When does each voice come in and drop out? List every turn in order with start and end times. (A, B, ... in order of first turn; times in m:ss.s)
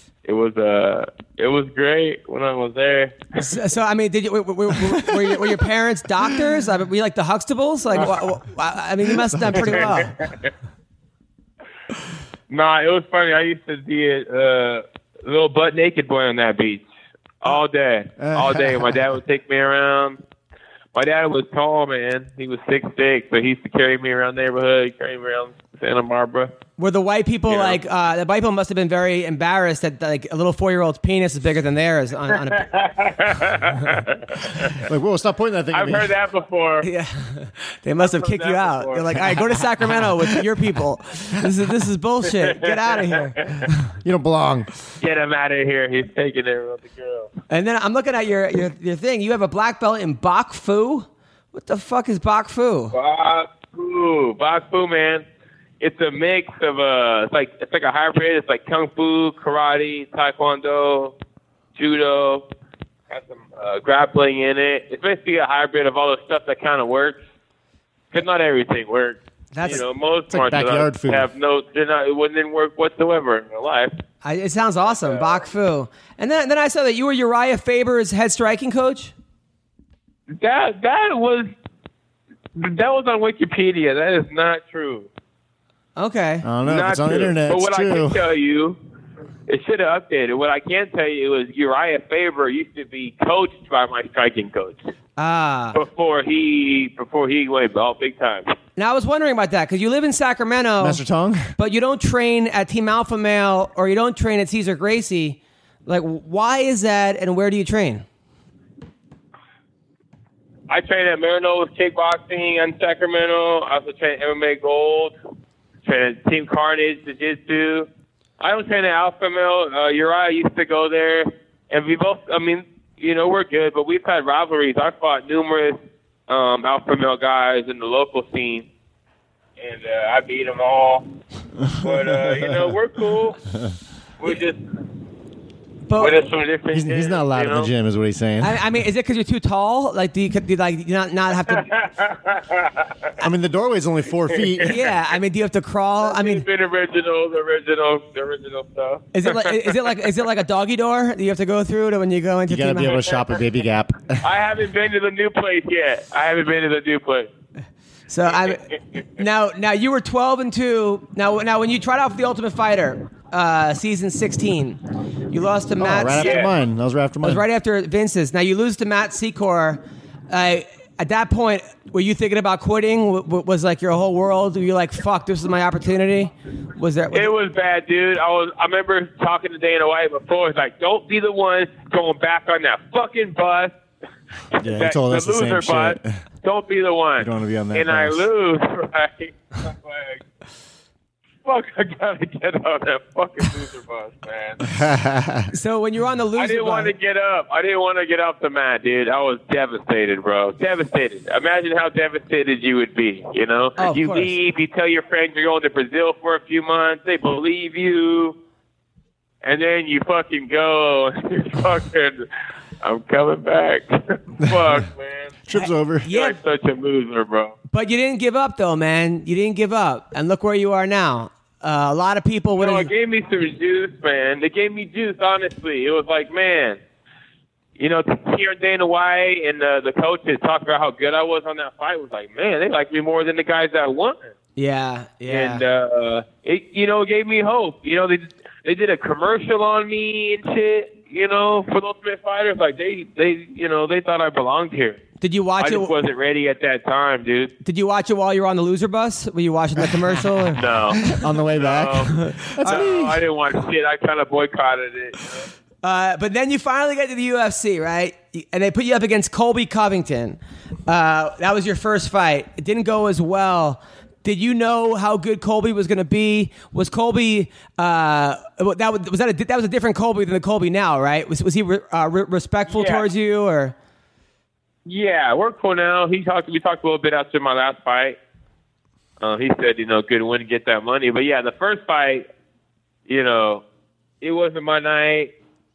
0:00.2-0:03.2 A
0:03.4-0:10.2 B
0:09.3-0:09.8 C
0:09.6-0:10.5 A
0:12.5-0:16.9 A
0:17.4-0:20.2 A
0:18.2-0:19.0 C
0:20.9-0:26.5 A
0:26.8-0:32.7 B
0:27.5-0:27.8 A
0:32.4-0:34.8 A
0:34.8-0:36.1 C
0:35.7-0:36.9 A
0:36.8-0:43.4 B
0:38.0-0:39.3 A
0:42.4-0:43.7 A
0:44.0-0:44.7 C
0:45.0-0:47.3 A
0:47.5-0:53.0 B
0:52.9-0:55.2 A
0:55.8-1:01.2 A
1:01.8-1:02.5 A
1:03.1-1:07.2 A
1:08.1-1:13.9 A
1:09.5-1:09.9 B
1:10.3-1:11.3 C
1:14.2-1:19.1 B
1:14.9-1:15.4 A
1:20.3-1:21.5 A
1:22.6-1:25.1 A
1:26.0-1:26.4 B
1:26.4-1:28.2 C
1:26.6-1:28.8 A
1:29.5-1:34.8 A
1:35.2-1:35.8 B
1:35.7-1:38.5 A
1:38.8-1:41.0 B
1:40.8-1:41.5 C
1:41.6-1:48.0 B
1:50.7-1:55.2 A
1:55.8-1:57.9 A
1:58.4-2:08.7 A
2:09.6-2:11.1 A
2:11.7-2:13.4 A
2:11.8-2:12.7 C
2:14.2-2:14.6 A
2:15.9-2:16.2 B
2:16.0-2:17.7 A
2:16.7-2:18.6 C
2:18.4-2:21.7 B
2:21.5-2:23.1 A
2:23.2-2:24.8 C
2:24.6-2:26.5 B
2:26.0-2:30.0 A
2:29.1-2:33.0 B
2:32.5-2:34.2 C
2:34.2-2:37.3 A
2:38.1-2:46.4 B
2:38.3-2:38.8 A
2:45.8-2:47.4 C
2:46.2-2:46.5 A
2:47.2-2:57.3 B
2:57.1-3:03.8 A
3:04.6-3:10.2 A
3:04.6-3:06.2 C
3:07.2-3:08.3 C
3:11.4-3:14.6 A
3:14.7-3:15.5 C
3:15.5-3:16.9 B
3:16.4-3:28.4 A
3:23.8-3:24.4 B
3:29.4-3:32.3 A
3:32.8-3:35.3 A
3:35.5-3:36.1 C
3:35.6-3:36.4 B
3:36.1-3:37.6 A
3:37.7-3:42.9 B
3:42.6-3:46.8 A
3:47.8-3:54.2 A
3:54.6-3:55.7 B
3:55.3-4:05.0 A
4:05.2-4:05.9 B
4:05.6-4:07.5 A
4:07.6-4:10.6 B
4:10.6-4:15.4 A
4:11.0-4:13.2 C
4:12.1-4:12.8 B
4:15.8-4:33.7 B
4:32.7-4:33.1 A
4:34.8-4:38.2 A
4:39.2-4:42.3 A
4:43.1-4:43.6 A
4:44.2-4:45.3 A